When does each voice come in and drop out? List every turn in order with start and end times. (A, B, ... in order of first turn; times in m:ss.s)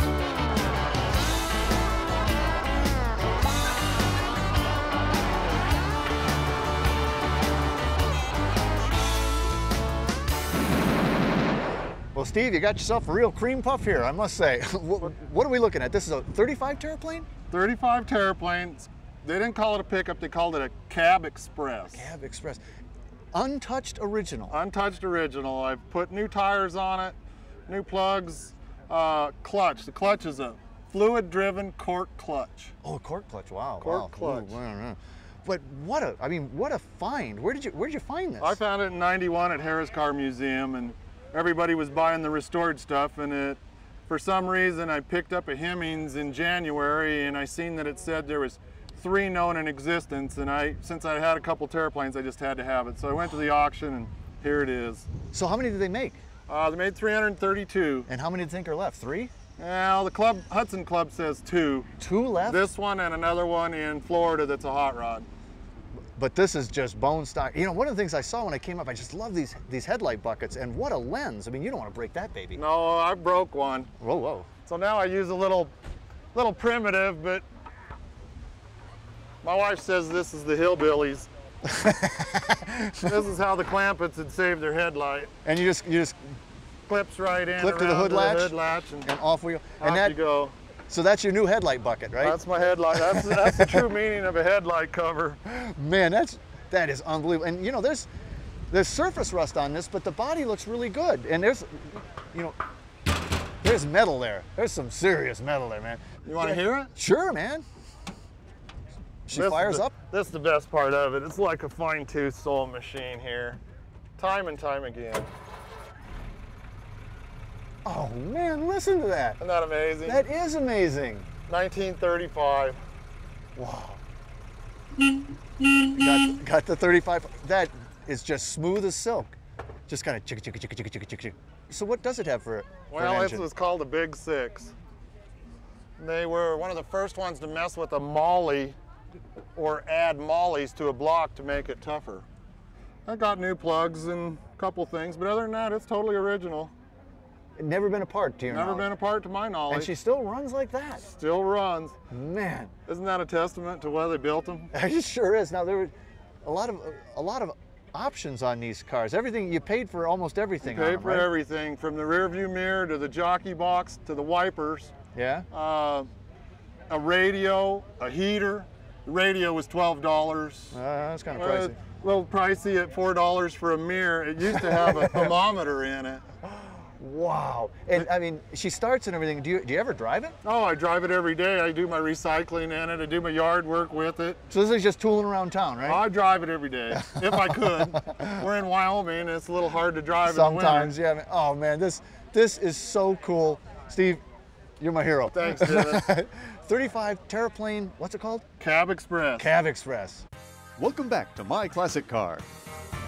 0:12.1-0:17.3 A
0:17.5-0:22.1 B
0:21.9-0:22.6 A
0:23.3-0:24.6 A
0:24.5-0:27.2 B
0:27.7-0:32.7 B
0:32.8-0:38.6 A
0:33.8-0:34.6 B
0:38.4-0:55.1 B
0:55.3-0:56.2 A
0:56.5-0:58.1 B
0:58.1-0:59.3 A
0:59.6-1:01.9 B
1:02.0-1:02.6 A
1:02.4-1:05.3 B
1:06.2-1:12.6 A
1:12.6-1:13.9 B
1:14.0-1:14.5 A
1:14.6-1:15.7 B
1:16.3-1:17.4 B
1:19.4-1:21.3 B
1:21.6-1:23.1 A
1:23.0-1:25.3 B
1:25.4-1:26.3 A
1:26.9-1:29.1 B
1:27.6-1:30.2 A
1:29.8-1:30.5 B
1:30.9-1:33.8 A
1:32.2-1:35.4 B
1:35.6-1:38.1 A
1:38.7-1:42.6 A
1:43.6-1:47.6 A
1:46.2-1:46.9 B
1:49.3-1:49.9 A
1:49.3-1:53.6 B
1:54.2-1:55.3 B
1:57.8-1:59.4 A
1:59.4-2:00.2 B
2:00.0-2:01.3 A
2:01.5-2:02.8 B
2:03.6-2:04.0 A
2:05.9-2:09.4 A
2:09.9-2:13.5 A
2:12.9-2:14.7 B
2:16.0-2:18.8 B
2:19.5-2:22.3 B
2:23.0-2:26.7 B
2:27.6-2:28.9 A
2:28.5-2:29.9 B
2:29.7-2:31.0 A
2:31.0-2:32.0 B
2:32.1-2:32.7 A
2:32.9-2:34.7 B
2:34.7-2:35.9 A
2:36.4-2:41.3 A
2:40.6-2:44.9 B
2:45.1-2:45.5 A
2:45.5-2:46.1 B
2:46.9-2:50.8 B
2:50.7-2:51.8 A
2:51.3-2:56.2 B
2:54.6-2:55.3 A
2:56.4-3:00.4 A
3:00.4-3:04.4 B
3:04.5-3:06.0 A
3:05.8-3:10.9 B
3:06.9-3:08.4 A
3:10.3-3:14.2 A
3:14.8-3:18.4 A
3:15.3-3:16.1 B
3:18.6-3:19.5 B
3:19.4-3:20.2 A
3:20.8-3:22.4 A